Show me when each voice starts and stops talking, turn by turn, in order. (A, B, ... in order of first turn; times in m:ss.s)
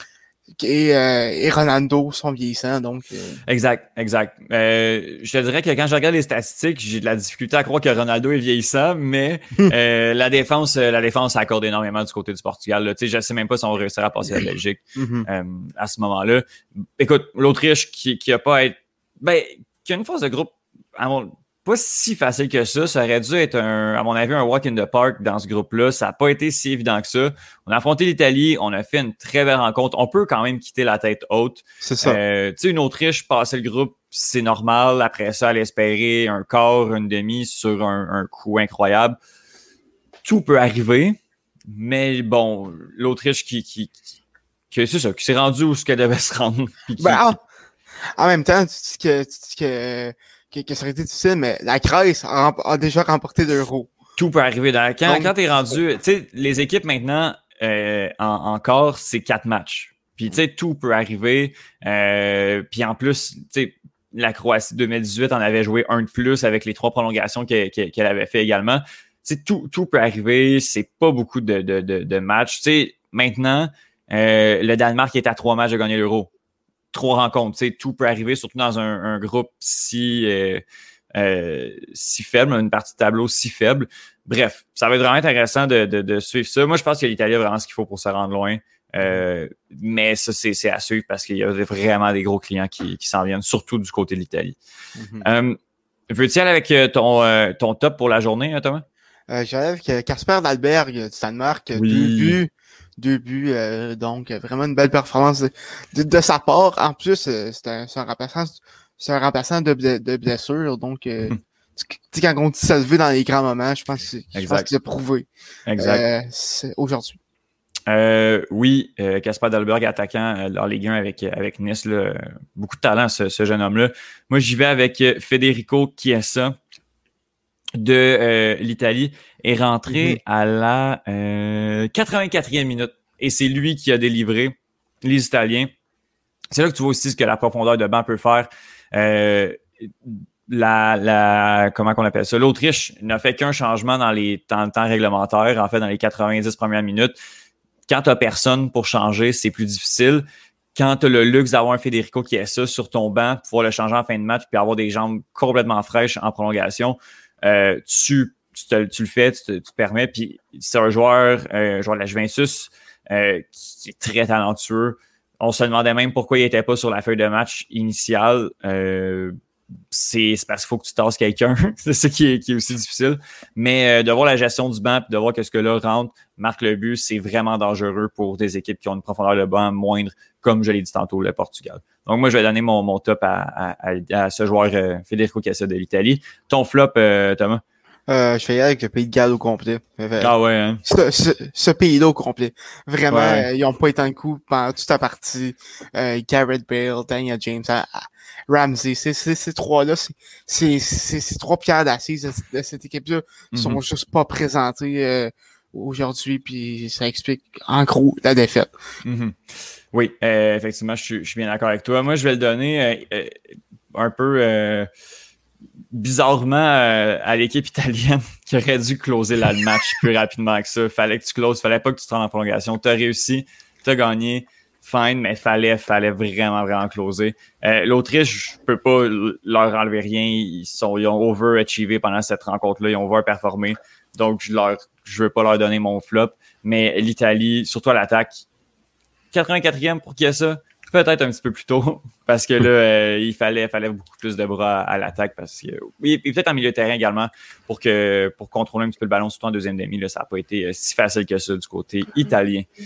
0:00.6-0:03.4 A
0:03.5-0:39.2 B
0:15.0-0:15.3 A
0:31.8-0:32.2 A
0:40.2-0:41.2 B
0:41.7-0:44.0 B
0:44.7-0:47.3 B
0:47.0-0:47.4 A
0:48.2-0:53.9 A
0:54.2-1:16.3 B
0:55.0-0:55.8 A
1:16.9-1:20.6 B
1:21.1-1:34.6 B
1:35.0-1:35.3 A
1:35.2-1:35.6 B
1:36.1-1:38.8 B
1:39.3-1:57.2 A
1:41.7-1:42.4 B
1:54.3-1:54.7 B
1:55.7-1:56.0 B
1:57.9-2:06.6 B
2:07.8-2:15.7 B
2:09.9-2:10.2 A
2:16.5-2:27.2 B
2:27.9-2:30.2 B
2:30.7-2:49.3 B
2:49.9-3:07.6 B
3:08.1-3:10.3 A
3:10.2-3:10.8 B
3:10.8-3:28.7 A
3:13.1-3:13.5 B
3:23.5-3:23.8 B
3:29.0-3:29.4 B
3:29.9-3:34.9 B
3:35.9-3:58.4 B
3:59.3-4:12.7 B